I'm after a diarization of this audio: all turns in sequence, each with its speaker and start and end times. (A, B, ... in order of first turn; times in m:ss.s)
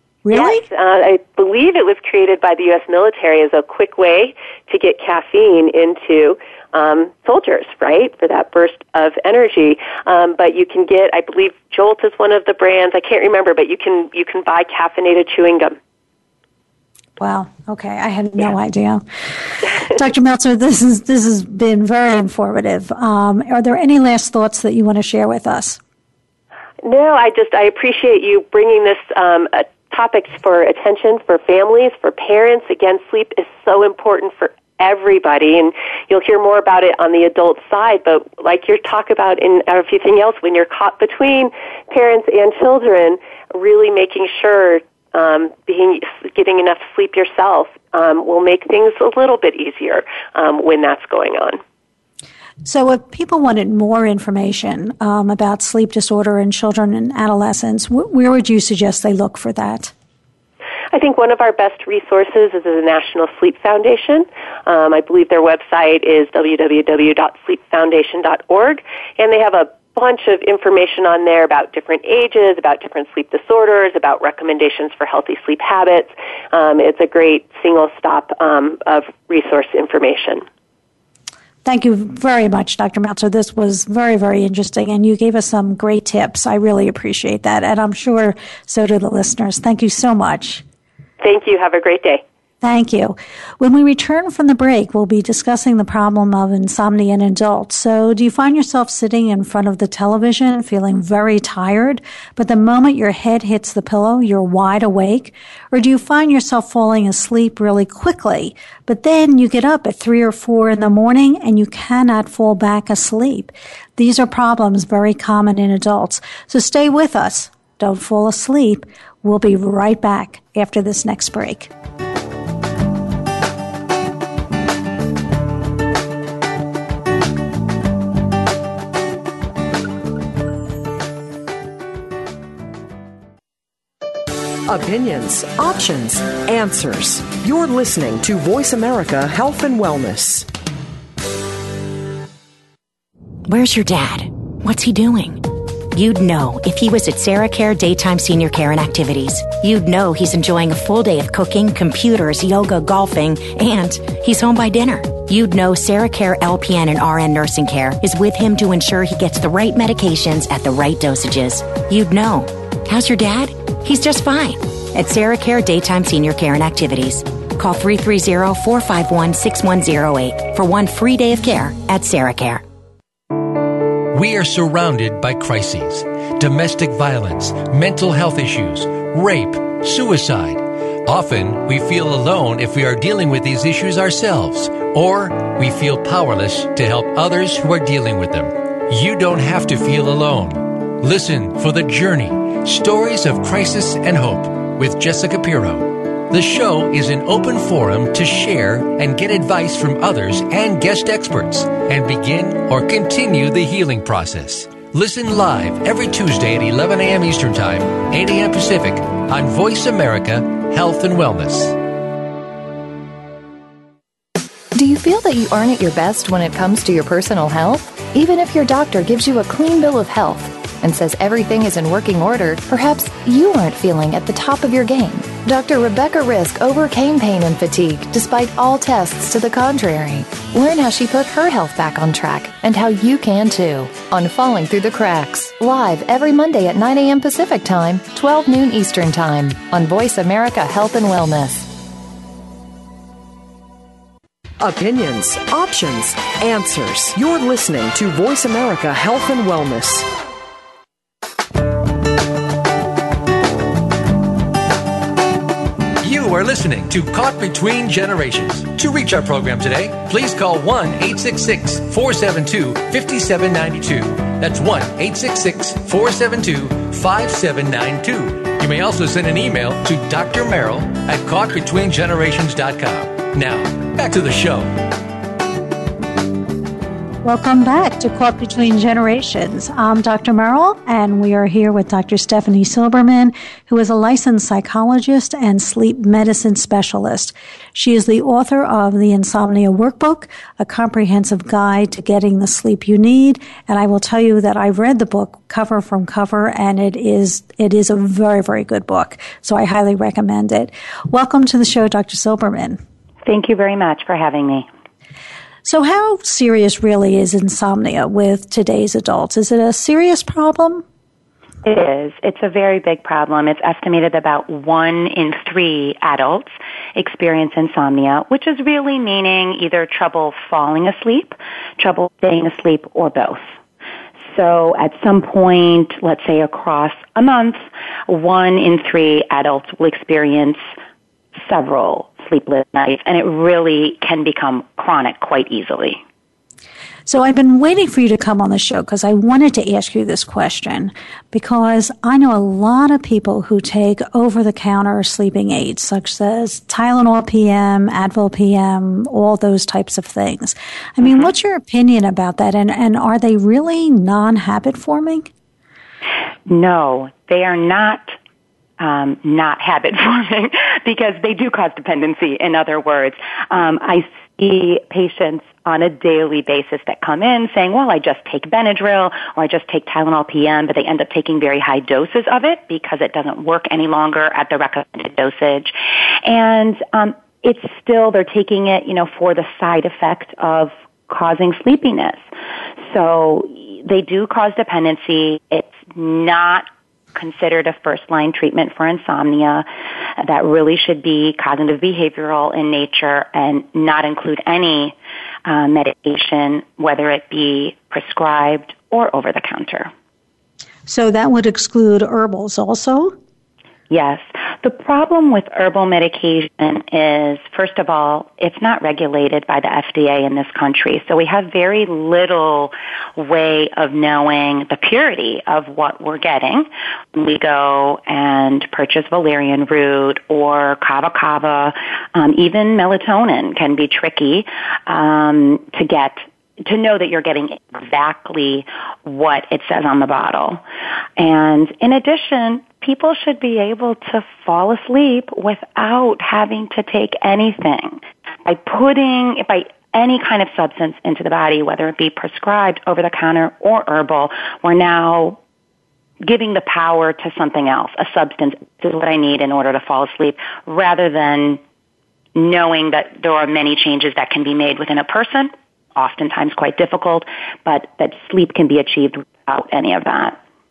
0:00.2-0:00.7 A
0:00.3-0:15.8 B
0:17.2-0:19.0 A
0:19.7-0:25.8 A
0:26.8-0:51.6 B
0:52.6-0:59.9 A
1:00.9-1:20.4 B
1:21.6-1:30.6 A
1:31.2-1:32.2 B
1:32.6-2:01.7 A
2:14.7-2:20.5 C
2:23.5-2:52.6 D
2:54.1-3:31.8 E
3:34.7-4:01.7 F
4:04.6-4:10.1 C
4:16.0-4:34.7 E
4:37.2-5:02.8 A
5:03.3-5:04.7 G
5:05.6-5:10.8 A
5:11.6-5:23.5 G
5:24.2-5:30.6 G
5:31.4-5:36.0 G
5:37.1-5:55.3 A
5:51.0-5:51.3 G
5:56.5-5:58.2 G
5:58.8-6:22.2 G
6:22.8-6:29.7 G
6:30.2-6:39.9 G
6:40.9-6:43.2 A
6:43.9-7:10.6 G
7:11.2-7:25.4 G
7:26.2-7:31.6 G
7:32.4-7:40.4 G